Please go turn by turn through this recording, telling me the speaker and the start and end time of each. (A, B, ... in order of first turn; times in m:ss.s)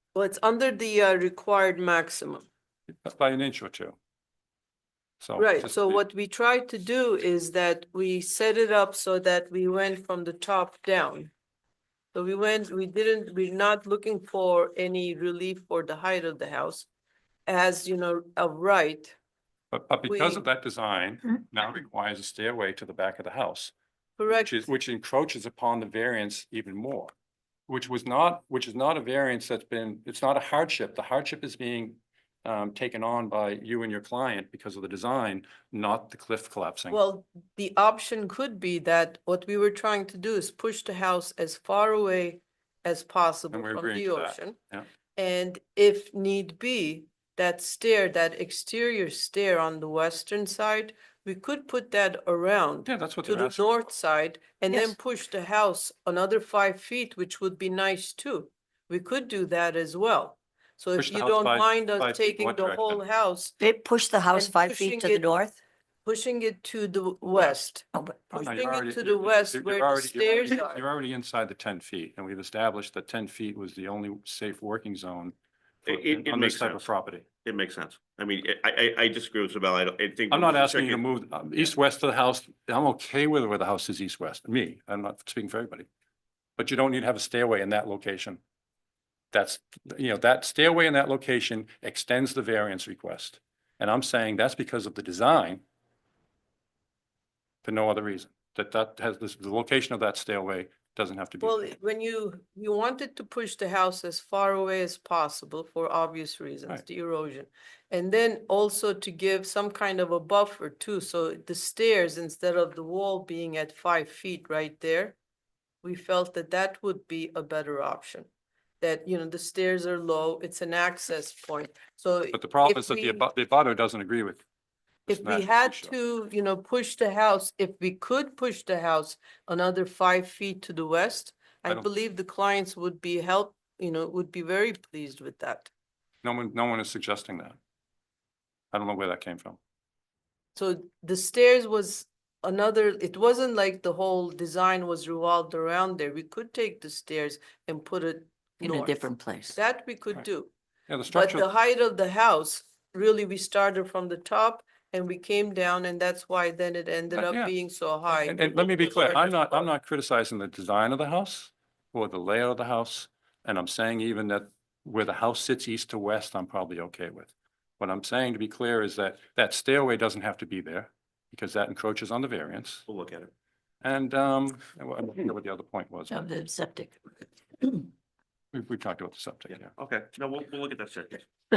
0:00.1-0:02.4 A
0:03.0-0:04.0 B
0:05.2-0:06.0 B
0:05.4-0:11.3 A
0:12.1-0:16.9 A
0:17.4-0:19.2 A
0:19.7-0:23.7 B
0:20.1-0:20.4 A
0:24.2-0:24.7 A
0:24.3-0:27.1 B
0:27.7-0:37.0 B
0:36.9-0:44.6 A
0:43.5-0:44.8 B
0:45.2-1:03.5 A
0:52.8-0:53.6 B
1:01.0-1:03.0 B
1:03.6-1:05.6 C
1:04.3-1:05.3 A
1:06.0-1:10.8 A
1:08.0-1:08.4 C
1:08.4-1:17.2 B
1:15.9-1:16.9 D
1:17.4-1:21.0 D
1:20.3-1:25.9 B
1:26.6-1:28.4 B
1:29.3-1:35.6 B
1:37.6-1:41.6 B
1:41.4-1:55.2 A
1:55.8-1:58.3 A
1:58.8-2:03.3 A
2:02.3-2:04.4 B
2:05.0-2:05.9 B
2:05.1-2:15.7 A
2:16.2-2:17.6 B
2:18.7-2:19.6 B
2:20.6-2:29.0 A
2:28.6-2:29.5 C
2:29.5-2:30.5 A
2:30.9-2:31.5 B
2:31.1-2:39.7 A
2:37.1-2:37.5 B
2:38.1-2:52.8 B
2:52.9-2:53.3 D
2:53.8-2:56.3 B
2:56.1-2:56.9 C
2:58.5-2:59.7 B
2:59.5-3:01.2 D